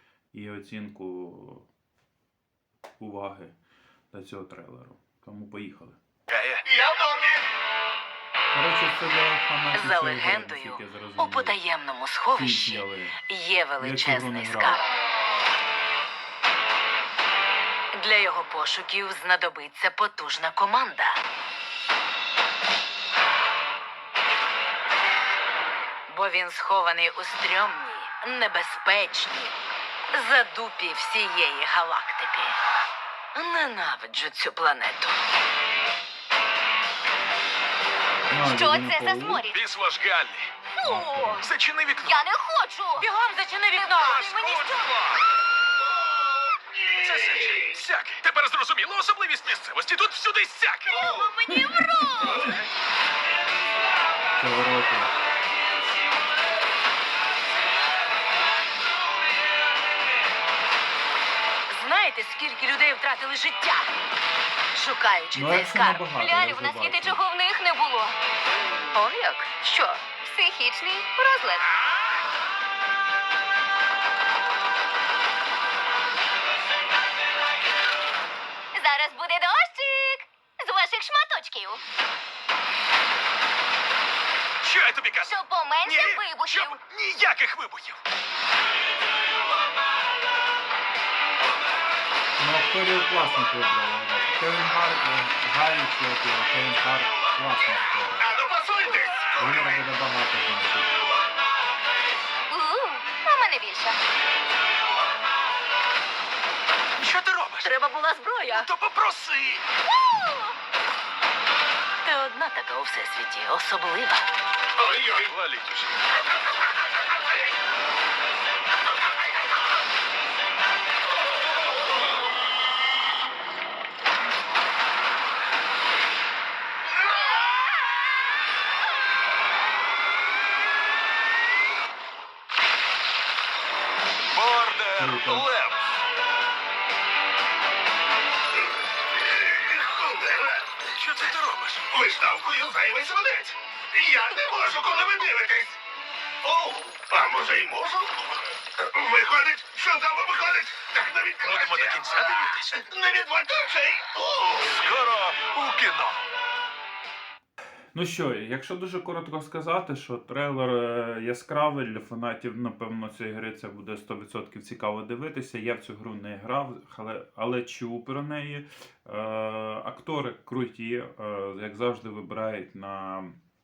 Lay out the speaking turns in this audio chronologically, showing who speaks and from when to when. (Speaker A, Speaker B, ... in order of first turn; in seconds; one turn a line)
Speaker A: 0.3-1.7
Speaker A: 3.0-3.5
Speaker A: 4.1-6.0
Speaker B: 6.3-6.6
Speaker C: 6.7-7.4
Speaker A: 8.5-11.6
Speaker D: 9.7-14.8
Speaker A: 12.3-13.2
Speaker A: 13.8-14.8
Speaker D: 17.9-21.2
Speaker D: 26.1-29.6
Speaker D: 30.1-32.6
Speaker D: 33.3-35.2
Speaker A: 38.3-39.5
Speaker E: 38.4-39.6
Speaker B: 39.5-40.6
Speaker E: 40.7-43.1
Speaker A: 40.8-41.4
Speaker B: 41.4-42.2
Speaker D: 43.0-44.2
Speaker E: 43.7-44.9
Speaker B: 43.9-45.2
Speaker C: 46.5-47.7
Speaker B: 47.0-51.1
Speaker E: 50.9-52.4
Speaker C: 50.9-51.3
Speaker A: 51.5-52.5
Speaker A: 54.4-55.1
Speaker D: 61.7-63.9
Speaker D: 64.7-66.0
Speaker A: 65.3-67.2
Speaker E: 66.0-68.2
Speaker E: 69.0-71.7
Speaker E: 78.8-81.8
Speaker B: 84.6-88.0
Speaker E: 85.2-86.8
Speaker A: 92.4-98.3
Speaker C: 98.2-99.8
Speaker A: 99.4-100.9
Speaker E: 102.5-104.0
Speaker B: 107.0-107.7
Speaker D: 107.6-108.6
Speaker E: 108.0-108.7
Speaker B: 108.5-109.6
Speaker E: 110.0-110.5
Speaker D: 112.0-114.3
Speaker B: 114.8-116.1
Speaker B: 134.3-136.0
Speaker A: 135.0-135.5
Speaker C: 139.1-140.8
Speaker B: 140.9-141.8
Speaker C: 141.9-145.8
Speaker C: 146.4-154.8
Speaker B: 151.5-152.8
Speaker B: 154.6-156.2
Speaker A: 157.9-173.3